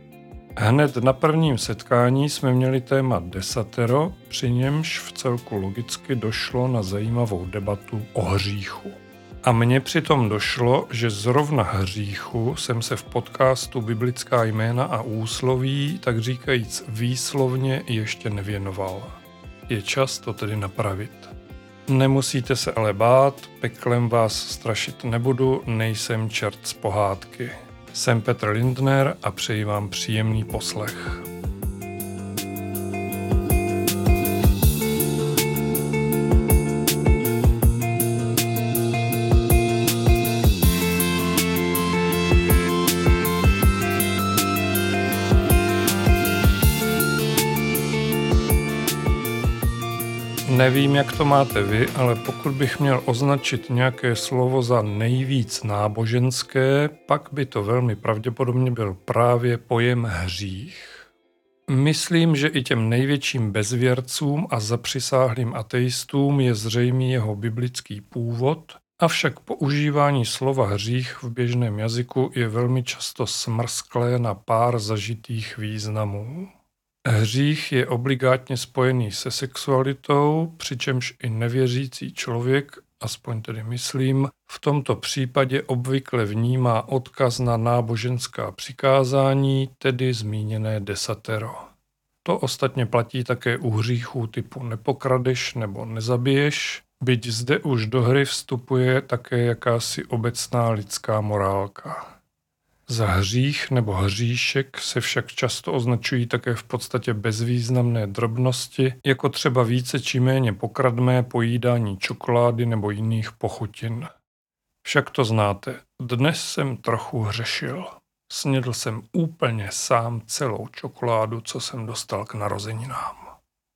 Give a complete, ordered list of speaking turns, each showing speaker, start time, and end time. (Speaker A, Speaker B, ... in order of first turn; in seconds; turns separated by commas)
Speaker A: 0.6-21.3, Speaker A: 21.9-31.3, Speaker A: 50.5-61.1, Speaker A: 61.7-76.5, Speaker A: 77.0-91.7, Speaker A: 92.2-102.1, Speaker A: 102.9-114.1, Speaker A: 114.8-123.4